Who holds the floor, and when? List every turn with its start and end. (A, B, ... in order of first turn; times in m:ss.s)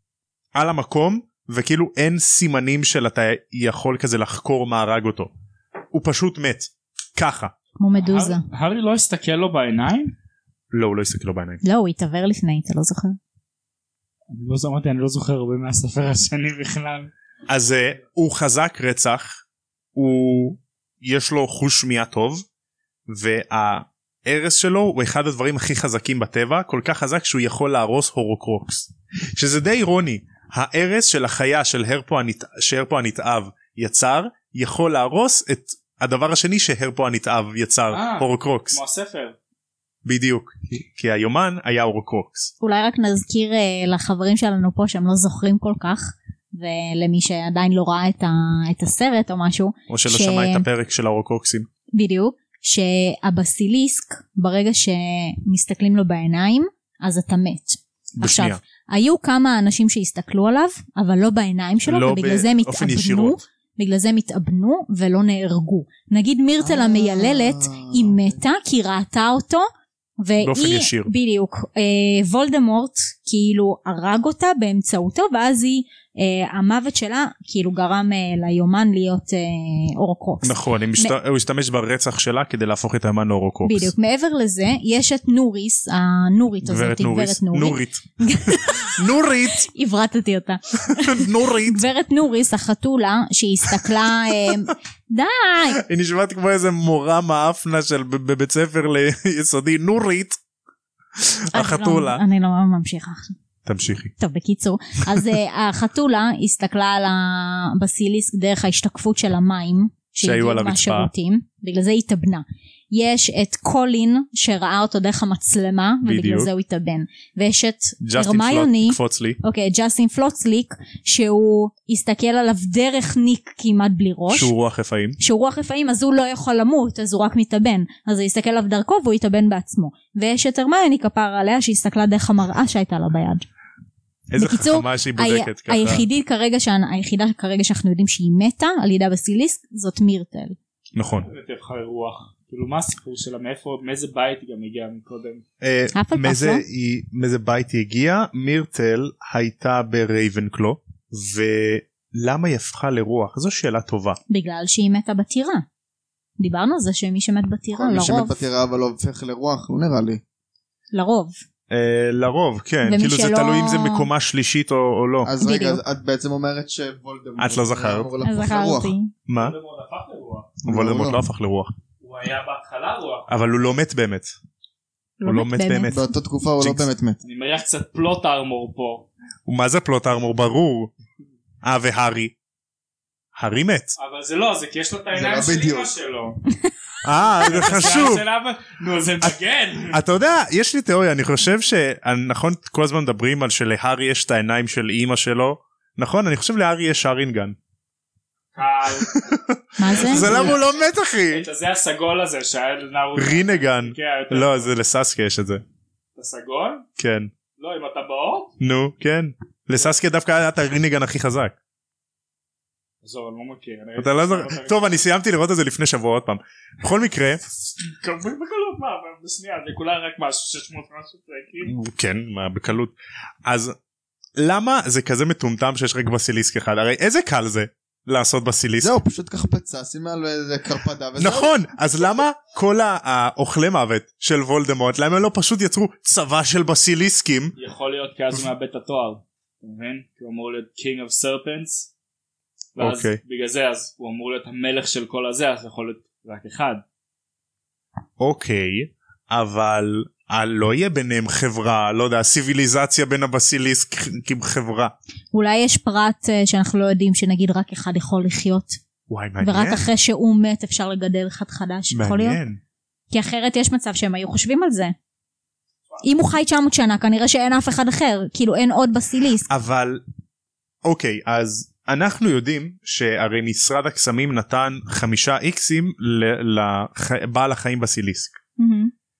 0:00.5-0:05.3 A
0:05.9-0:07.5 A
0:07.8-0:08.4 B
0:08.0-0:10.1 C
0:10.7-0:11.6 A
0:11.6-0:13.2 B
0:14.3-0:17.1 C
0:17.5-0:19.4 A
0:19.9-0:22.4 A
0:23.1-0:38.8 A
0:37.9-0:39.4 C
0:40.0-0:42.5 A
0:42.6-0:50.6 B
0:49.9-0:51.7 A
0:51.9-1:09.7 B
0:58.2-0:58.6 A
1:01.8-1:03.4 A
1:06.6-1:08.4 D
1:10.2-1:21.2 B
1:10.4-1:11.1 A
1:20.4-1:23.9 A
1:23.6-1:35.8 B
1:26.6-1:29.7 A
1:30.9-1:31.8 A
1:35.8-1:40.4 A
1:41.2-1:42.2 A
1:41.5-1:43.3 B
1:43.6-1:44.1 A
1:44.2-2:04.5 B
1:50.2-1:51.1 A
1:56.0-1:56.5 A
1:58.0-1:59.4 A
2:04.3-2:05.2 A
2:05.2-2:13.4 B
2:14.3-2:16.0 A
2:14.4-2:20.6 B
2:20.9-2:21.3 A
2:21.2-2:25.4 C
2:25.6-2:34.2 A
2:25.9-2:26.6 B
2:34.3-2:35.6 B
2:36.4-2:38.4 B
2:37.7-2:40.2 D
2:40.9-2:41.4 B
2:41.7-2:45.3 A
2:42.8-2:44.1 B
2:45.2-2:48.9 D
2:45.4-2:45.8 B
2:47.4-2:48.1 A
2:48.2-2:49.1 B
2:49.3-2:49.6 A
2:49.3-2:50.6 C
2:50.6-2:51.7 A
2:50.6-2:51.2 D
2:52.0-2:53.4 C
2:53.3-2:54.3 A
2:55.2-2:56.0 B
2:55.2-2:56.9 A
2:55.9-2:57.2 D
2:57.2-2:59.1 C
2:59.4-3:00.9 A
3:01.6-3:02.3 A
3:03.3-3:03.9 A
3:04.0-3:06.4 C
3:05.1-3:05.9 D
3:07.0-3:08.2 A
3:07.3-3:10.0 C
3:09.9-3:17.6 A
3:18.5-3:19.3 C
3:19.1-3:21.4 A
3:19.8-3:20.6 B
3:19.9-3:20.7 C
3:21.3-3:24.7 C
3:23.2-3:25.6 A
3:26.2-3:26.8 C
3:27.0-3:27.3 A
3:27.6-3:28.5 C
3:28.6-3:31.6 A
3:33.0-3:34.9 C
3:34.0-3:37.4 A
3:37.8-3:41.7 C
3:41.6-3:43.8 A
3:44.4-3:49.0 A
3:48.8-3:51.5 D
3:51.2-3:57.5 A
3:57.6-4:01.9 C
4:02.8-4:06.8 C
4:02.8-4:03.2 A
4:08.2-4:14.9 A
4:15.3-4:18.8 B
4:19.1-4:19.9 A
4:19.4-4:22.4 B
4:21.9-4:22.6 A
4:23.1-4:24.9 B
4:26.0-4:29.5 B
4:29.5-4:30.0 A
4:30.8-4:38.4 A
4:38.6-4:38.9 B